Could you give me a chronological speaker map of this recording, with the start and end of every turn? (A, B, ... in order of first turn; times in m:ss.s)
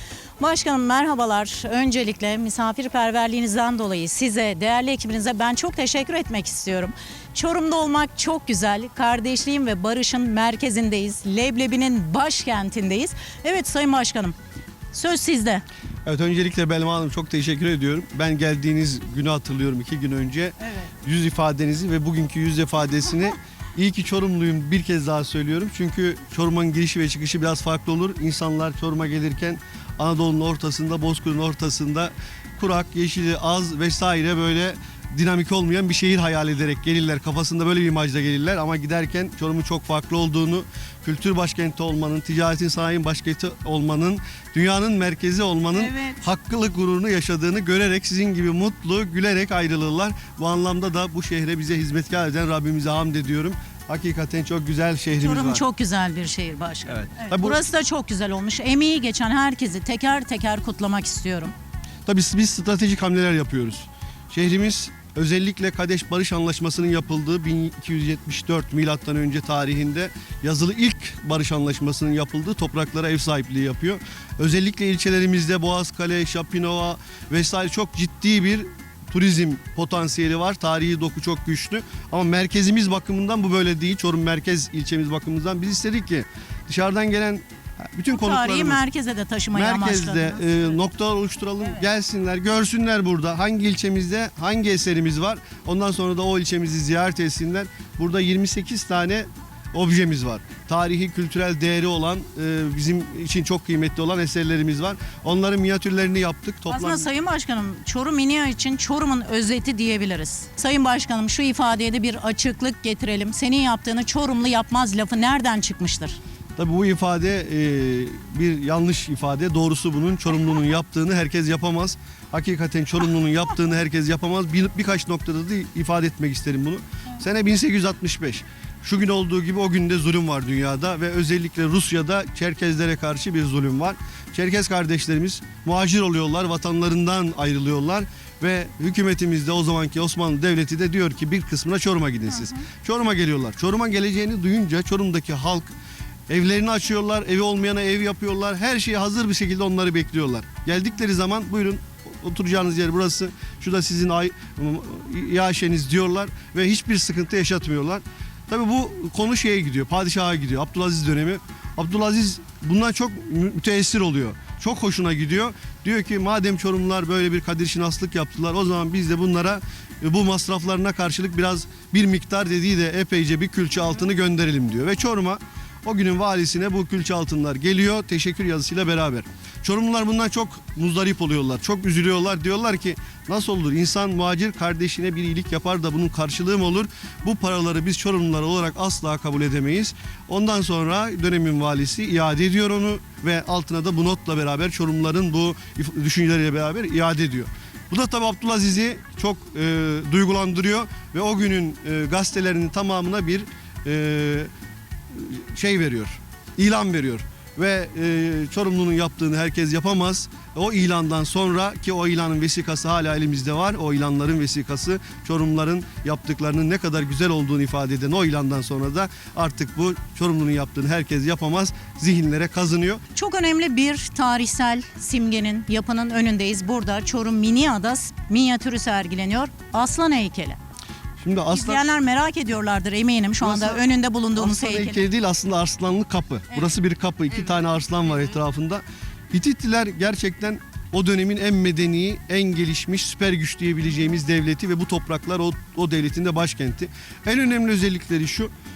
0:00.4-0:14.4 A
0:14.9-0:15.6 A
0:16.0-0:55.6 B
0:45.8-0:46.2 A
0:55.2-1:01.5 A
0:56.9-0:57.6 B
1:02.0-1:28.8 B
1:28.1-1:30.6 A
1:29.5-1:47.1 B
1:46.7-1:56.2 A
1:56.6-2:25.7 B
2:26.3-3:24.5 B
3:25.1-3:43.0 B
3:43.1-3:50.6 A
3:51.2-3:51.8 B
3:51.5-3:55.1 A
3:53.4-4:08.5 B